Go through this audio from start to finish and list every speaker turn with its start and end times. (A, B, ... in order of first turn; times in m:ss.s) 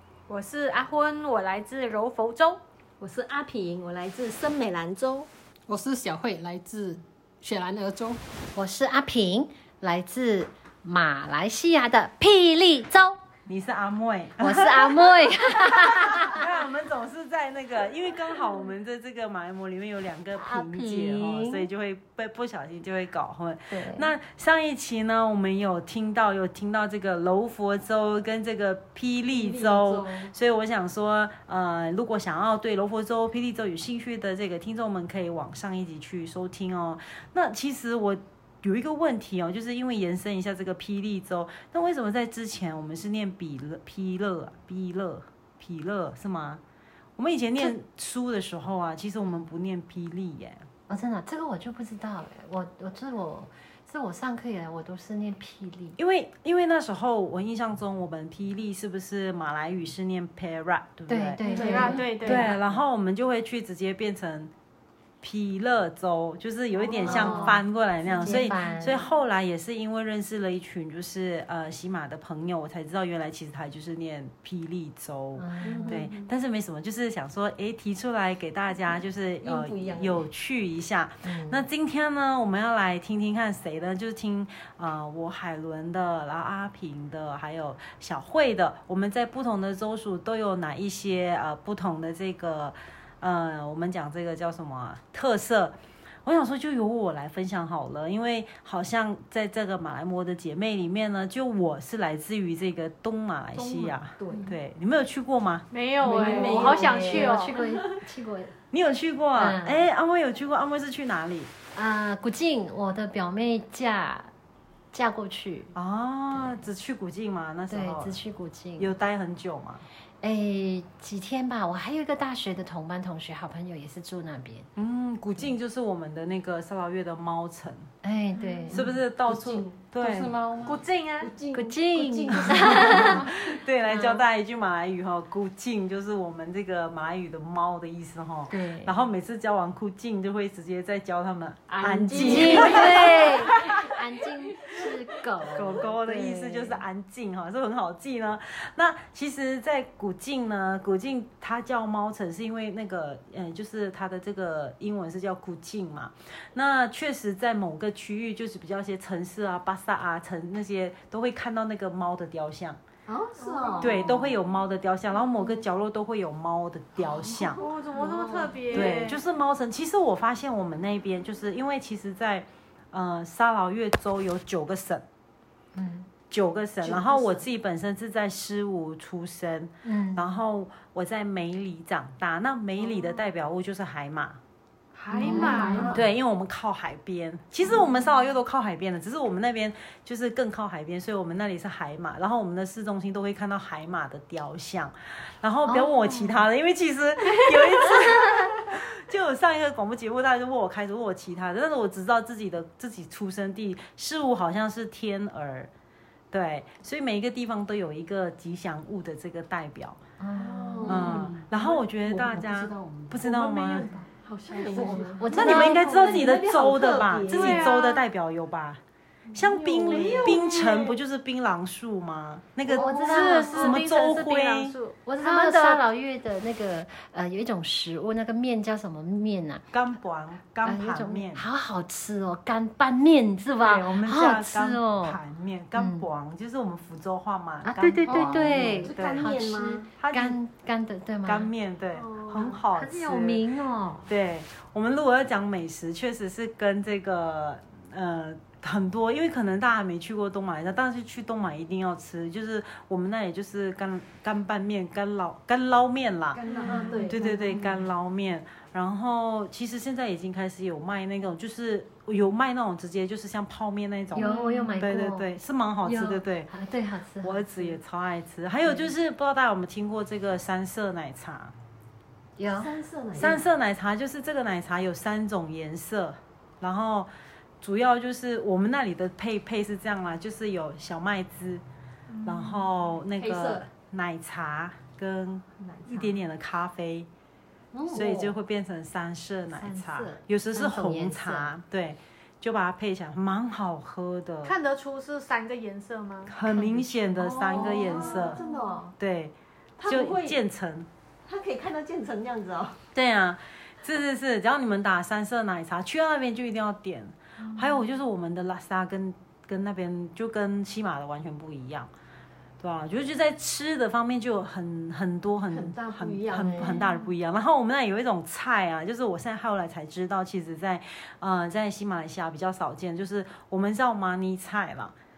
0:00.3-0:02.6 A
0:03.0-0:05.3 B
0:05.7-0:08.2 C
0:08.6-0:13.2 D
0:13.5-0:46.6 E
0:14.4-0:16.4 D
0:20.4-0:21.7 D
0:23.7-0:24.1 D
0:29.3-0:30.3 B
0:47.2-0:50.7 E
0:50.9-0:56.0 D
0:56.0-1:01.4 E
1:01.1-1:02.5 D
1:01.4-1:02.4 B
1:01.4-1:02.6 A
1:02.2-1:04.5 E
1:05.2-1:45.7 E
1:06.8-1:08.5 B
1:07.0-1:07.6 D
1:08.2-1:09.0 D
1:15.4-1:16.1 D
1:15.6-1:16.3 B
1:19.4-1:20.3 B
1:21.2-1:21.7 D
1:43.6-1:44.6 B
1:45.7-1:47.6 A
1:46.0-1:48.0 B
1:46.0-1:48.6 D
1:48.7-1:51.5 E
1:49.4-1:49.8 D
1:51.8-1:54.3 D
1:54.9-1:55.7 D
1:55.8-1:58.2 E
1:56.3-1:56.6 D
1:57.7-1:58.9 D
1:58.8-1:59.8 E
2:00.2-2:04.7 D
2:04.8-2:07.9 E
2:08.0-2:08.8 D
2:08.4-2:08.8 A
2:08.7-2:10.4 E
2:09.4-2:09.6 B
2:10.0-2:10.8 C
2:10.6-2:11.3 A
2:11.2-2:13.4 B
2:11.5-2:13.2 D
2:12.6-2:23.3 E
2:13.9-2:14.2 D
2:18.5-2:19.0 D
2:21.7-2:23.7 B
2:22.2-2:26.8 D
2:25.5-2:42.8 E
2:43.1-2:44.4 B
2:43.4-2:44.1 A
2:43.8-2:47.6 E
2:47.0-2:49.2 B
2:47.6-2:49.2 A
2:48.7-2:55.0 E
2:55.8-2:56.1 D
2:56.3-3:04.4 E
2:56.8-2:57.5 B
2:59.8-3:00.2 D
3:04.9-3:06.0 A
3:05.1-3:06.0 D
3:05.2-3:06.0 B
3:05.8-3:25.7 E
3:15.6-3:16.4 D
3:26.3-3:30.0 E
3:30.2-3:31.2 D
3:30.3-3:37.8 B
3:30.9-3:33.9 E
3:32.1-3:35.3 C
3:35.1-3:36.0 D
3:35.3-3:38.8 E
3:37.3-3:38.0 A
3:39.3-3:45.8 E
3:39.4-3:41.0 B
3:39.5-3:40.8 A
3:42.7-3:43.4 B
3:42.7-3:43.8 D
3:42.9-3:45.0 A
3:45.1-3:49.6 D
3:49.7-3:51.4 E
3:50.6-3:55.2 D
3:53.6-3:59.4 E
3:55.8-3:56.1 D
3:57.6-4:01.5 D
3:58.0-3:59.9 B
4:00.0-4:00.4 E
4:01.2-4:03.4 E
4:02.0-4:02.6 B
4:02.7-4:04.1 D
4:04.1-4:16.4 E
4:16.3-4:17.8 B
4:16.5-4:17.3 D
4:16.5-4:17.0 A
4:17.1-4:26.5 E
4:24.1-4:25.3 D
4:24.2-4:24.8 A
4:25.8-4:27.8 D
4:27.2-4:31.5 E
4:32.4-4:32.7 D
4:32.6-4:33.4 B
4:33.2-4:37.1 E
4:37.6-4:41.6 E
4:42.1-4:42.7 A
4:42.2-4:47.1 E
4:43.2-4:43.7 B
4:45.6-4:46.2 B
4:47.7-4:48.3 D
4:47.9-4:54.6 E
4:49.6-4:51.5 D
4:54.4-4:56.4 A
4:56.3-4:58.4 E
4:56.4-4:57.0 D
4:57.2-4:59.0 B
4:57.5-4:58.8 A
4:59.0-5:00.9 E
4:59.8-5:00.4 B
5:01.2-5:02.8 B
5:02.9-5:11.9 E
5:07.4-5:07.8 A
5:12.6-5:24.9 E
5:15.5-5:16.9 B